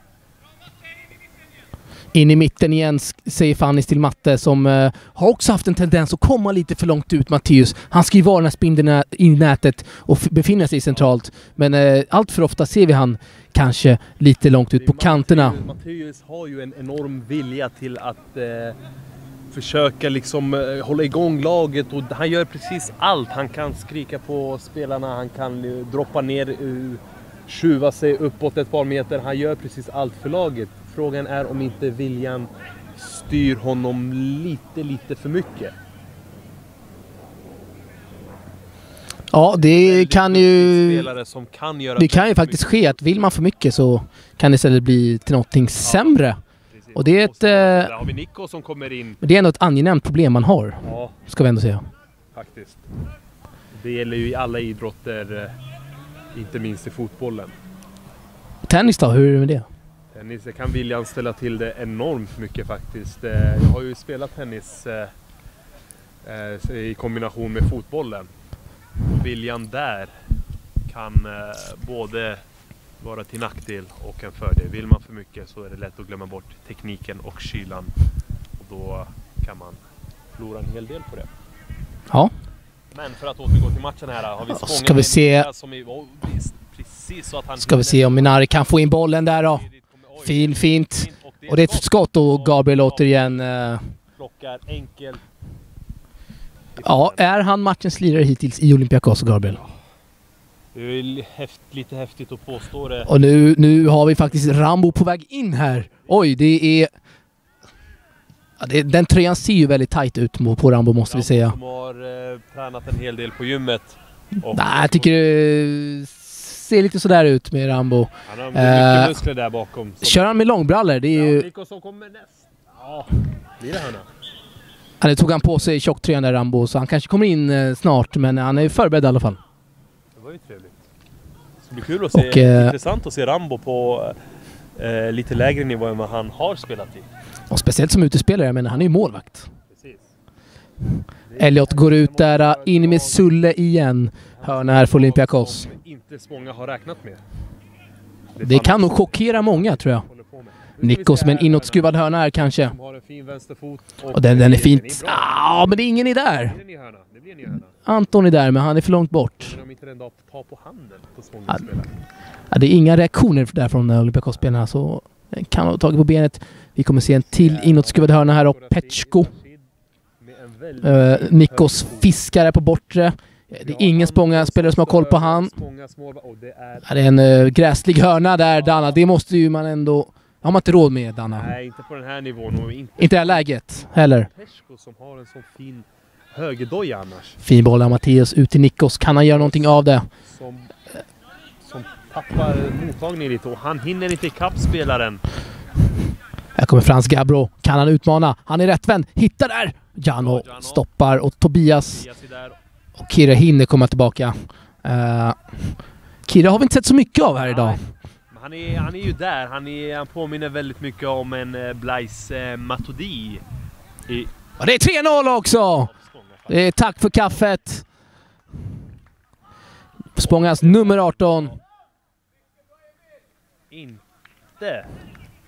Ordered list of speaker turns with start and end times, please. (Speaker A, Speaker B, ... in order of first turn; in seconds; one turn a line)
Speaker A: 2.1-15.6
Speaker B: 14.8-18.8
Speaker B: 19.5-35.7
Speaker A: 39.3-41.1
Speaker B: 39.5-43.0
Speaker A: 42.0-46.4
Speaker B: 45.8-46.2
Speaker B: 46.7-49.2
Speaker A: 47.0-47.9
Speaker A: 49.2-51.9
Speaker B: 50.8-51.2
Speaker B: 52.3-52.9
Speaker B: 53.7-55.5
Speaker B: 56.3-57.5
Speaker A: 58.7-59.7
Speaker B: 60.1-65.1
Speaker B: 66.2-68.3
Speaker B: 69.0-70.2
Speaker B: 70.9-72.4
Speaker B: 73.0-77.9
Speaker B: 78.6-79.8
Speaker B: 80.4-81.3
Speaker B: 82.9-93.5
Speaker A: 84.5-85.5
Speaker A: 87.7-89.6
Speaker A: 90.2-93.8
Speaker B: 94.2-95.2
Speaker B: 96.8-97.2
Speaker A: 96.8-99.6
Speaker B: 100.7-103.1
Speaker A: 103.1-106.9
Speaker A: 108.6-111.5
Speaker B: 111.1-115.2
Speaker A: 114.5-119.2
Speaker B: 118.3-120.4
Speaker A: 120.0-121.5
Speaker B: 121.1-124.1
Speaker A: 125.0-129.4
Speaker B: 130.2-130.8
Speaker B: 131.6-134.2
Speaker A: 132.1-132.7
Speaker B: 134.8-137.1
Speaker A: 137.5-139.5
Speaker B: 139.7-140.1
Speaker B: 141.3-143.3
Speaker A: 141.4-145.7
Speaker B: 144.3-147.2
Speaker B: 148.4-151.9
Speaker A: 148.4-150.0
Speaker A: 150.8-152.8
Speaker B: 152.6-155.5
Speaker A: 154.1-156.6
Speaker B: 156.3-157.8
Speaker A: 157.8-159.5
Speaker B: 159.4-161.9
Speaker A: 162.5-169.3
Speaker B: 167.0-169.6
Speaker B: 170.2-172.1
Speaker A: 170.8-175.5
Speaker B: 173.6-177.0
Speaker A: 176.9-181.5
Speaker B: 178.6-179.0
Speaker B: 181.3-187.4
Speaker A: 183.0-184.3
Speaker A: 187.4-190.1
Speaker B: 189.2-190.7
Speaker B: 191.6-195.2
Speaker A: 196.6-202.0
Speaker B: 200.2-200.8
Speaker B: 201.8-202.6
Speaker A: 203.0-205.7
Speaker A: 206.3-207.8
Speaker B: 207.4-213.4
Speaker B: 214.1-214.3
Speaker A: 214.6-215.9
Speaker B: 215.6-216.6
Speaker A: 216.5-217.9
Speaker A: 220.2-221.6
Speaker B: 220.2-221.5
Speaker B: 223.7-224.0
Speaker B: 224.6-224.9